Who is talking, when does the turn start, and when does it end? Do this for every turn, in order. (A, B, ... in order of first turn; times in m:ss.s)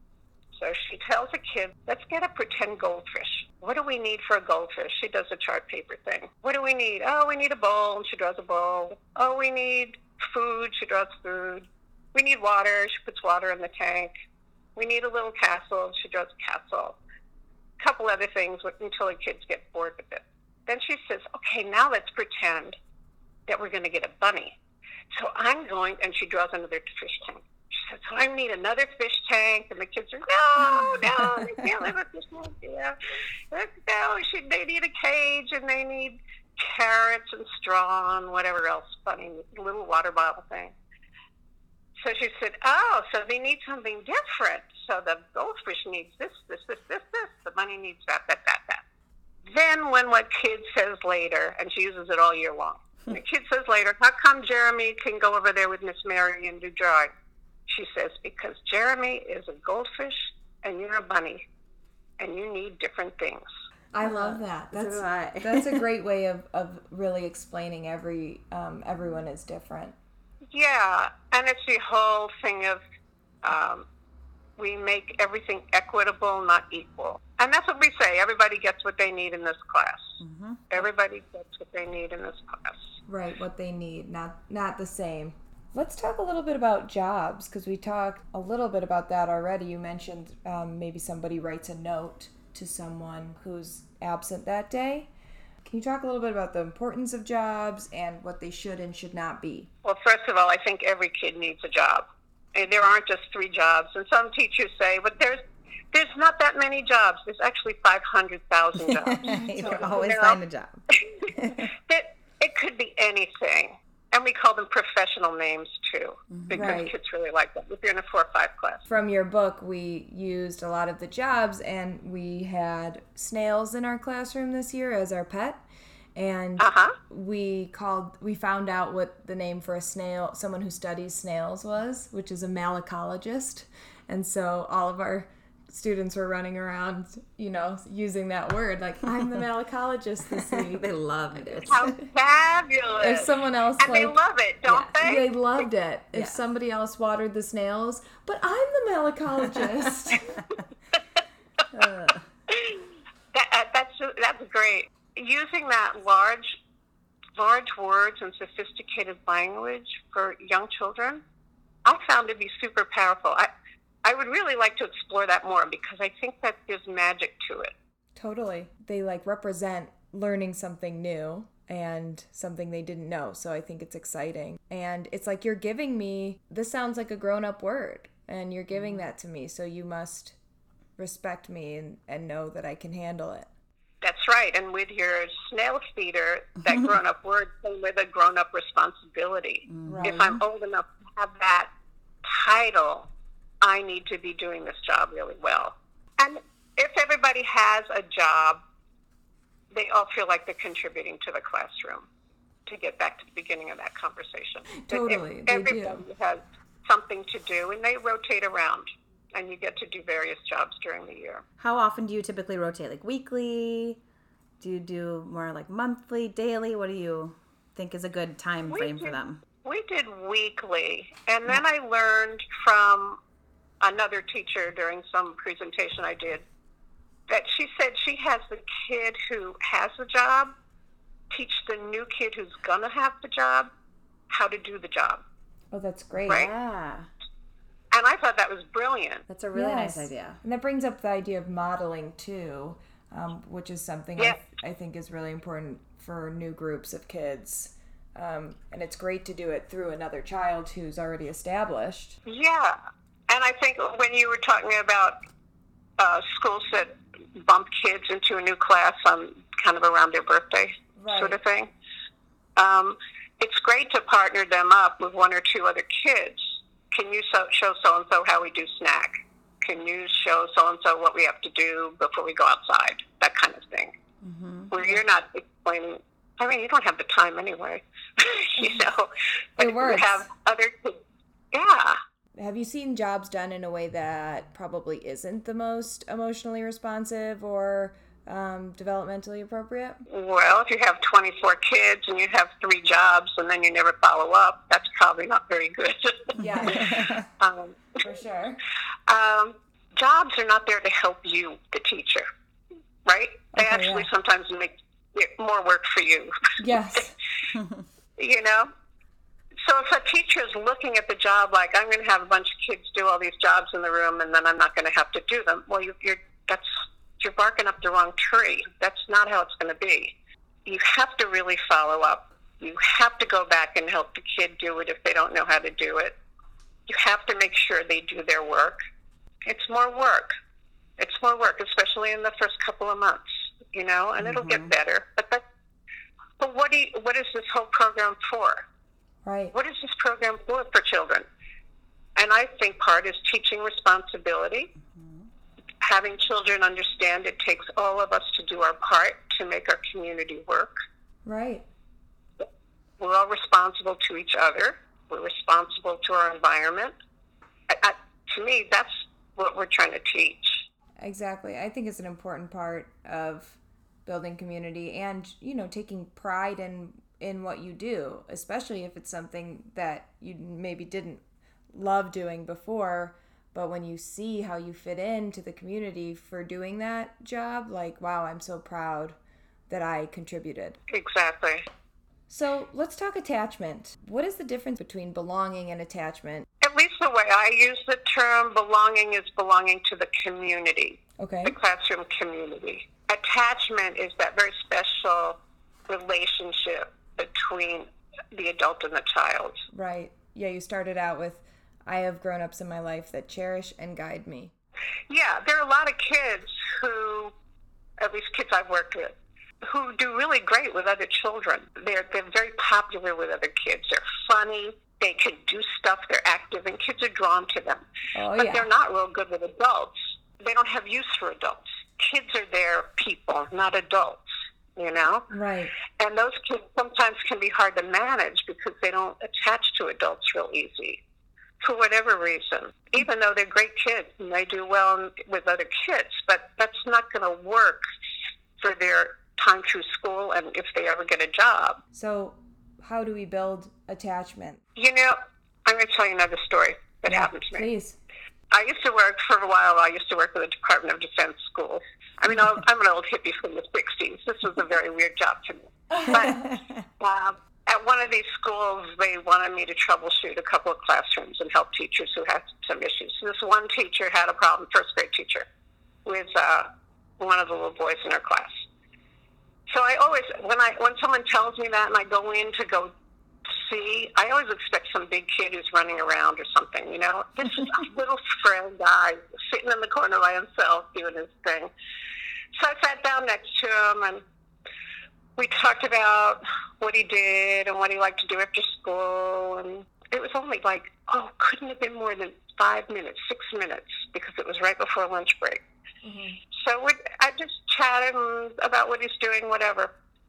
0:00.6-0:14.1 A
0:14.8-0:17.0 A
0:17.8-0:22.8 A
0:23.5-0:24.6 A
0:25.1-0:33.0 A
0:33.5-0:40.7 A
0:42.0-0:48.8 A
0:49.5-0:57.1 A
0:57.7-1:01.4 A
1:02.2-1:03.5 A
1:03.9-1:09.9 B
1:04.0-1:05.8 C
1:10.5-1:12.8 A
1:13.4-1:13.8 A
1:14.6-1:20.2 A
1:20.2-1:20.8 C
1:20.7-1:22.9 A
1:23.1-1:35.1 B
1:35.6-1:39.7 B
1:39.8-1:45.4 A
1:45.9-1:50.4 A
1:48.8-1:51.7 C
1:49.2-1:50.0 B
1:50.9-1:58.8 A
1:56.3-1:56.8 C
1:56.5-1:56.9 B
1:58.8-2:05.6 B
2:06.1-2:20.8 B
2:06.6-2:07.0 A
2:20.5-2:21.9 C
2:21.4-2:21.7 B
2:21.7-2:25.3 A
2:23.0-2:24.2 B
2:24.7-2:25.0 C
2:25.0-2:30.3 B
2:26.1-2:26.4 C
2:31.7-2:32.2 C
2:32.5-2:36.6 A
2:37.4-2:41.2 A
2:41.8-2:43.5 A
2:44.0-2:47.7 A
2:48.2-3:00.4 B
2:58.7-2:59.0 C
3:01.0-3:03.5 B
3:04.0-3:11.7 A
3:09.7-3:10.4 C
3:09.8-3:10.3 B
3:12.2-3:13.1 A
3:13.6-3:18.6 A
3:19.7-3:22.1 A
3:22.6-3:31.4 A
3:24.7-3:26.0 B
3:31.6-3:34.0 C
3:34.6-3:39.4 C
3:38.7-3:43.2 A
3:43.8-3:46.4 A
3:47.3-3:50.5 A
3:51.3-3:53.7 A
3:54.3-3:55.2 A
3:55.7-3:56.5 B
3:56.3-3:57.1 C
3:57.9-3:59.2 A
3:59.3-4:00.4 C
3:59.5-4:12.2 B
4:12.2-4:12.8 A
4:13.3-4:15.2 A
4:16.0-4:21.7 A
4:21.0-4:21.4 B
4:22.6-4:33.9 A
4:34.2-4:34.7 C
4:34.7-4:41.0 A
4:38.6-4:38.9 B
4:39.6-4:40.3 B
4:41.5-4:42.0 A
4:42.4-4:50.0 B
4:50.1-4:58.0 A
4:56.4-4:57.1 B
4:56.6-4:57.2 C
4:58.0-4:58.6 B
4:59.1-5:02.2 A
5:03.0-5:06.5 A
5:03.5-5:04.1 B
5:06.6-5:07.2 B
5:08.2-5:08.7 A
5:09.6-5:20.1 A
5:20.6-5:26.1 A
5:26.9-5:28.8 A
5:29.4-5:30.3 A
5:31.0-5:35.4 A
5:34.2-5:34.7 C
5:36.4-5:38.6 A
5:39.2-5:39.5 B
5:39.5-5:41.2 A
5:42.2-5:44.7 A
5:44.9-5:45.2 C
5:45.8-5:50.7 A
5:51.2-5:51.6 B
5:53.0-5:56.9 A
5:57.7-6:00.6 A
6:01.0-6:19.2 B
6:19.7-6:20.8 B
6:20.9-6:21.6 A
6:22.3-6:26.5 B
6:26.6-6:39.6 A
6:31.2-6:31.6 B
6:39.7-6:44.5 B
6:45.1-6:47.3 A
6:48.0-6:57.8 A
6:58.1-6:58.7 B
6:58.4-7:05.3 A
7:05.3-7:05.7 B
7:05.9-7:11.0 A
7:11.6-7:17.8 A
7:18.6-7:21.8 A
7:21.9-7:24.6 B
7:24.8-7:27.7 A
7:27.1-7:28.0 B
7:28.5-7:45.4 A
7:35.9-7:36.5 B
7:36.1-7:36.8 C
7:46.0-7:46.7 A
7:47.2-7:48.6 A
7:49.7-7:52.9 A
7:53.4-8:01.7 A
8:02.5-8:04.2 A
8:05.4-8:15.6 A
8:16.0-8:16.4 B
8:16.5-8:19.9 A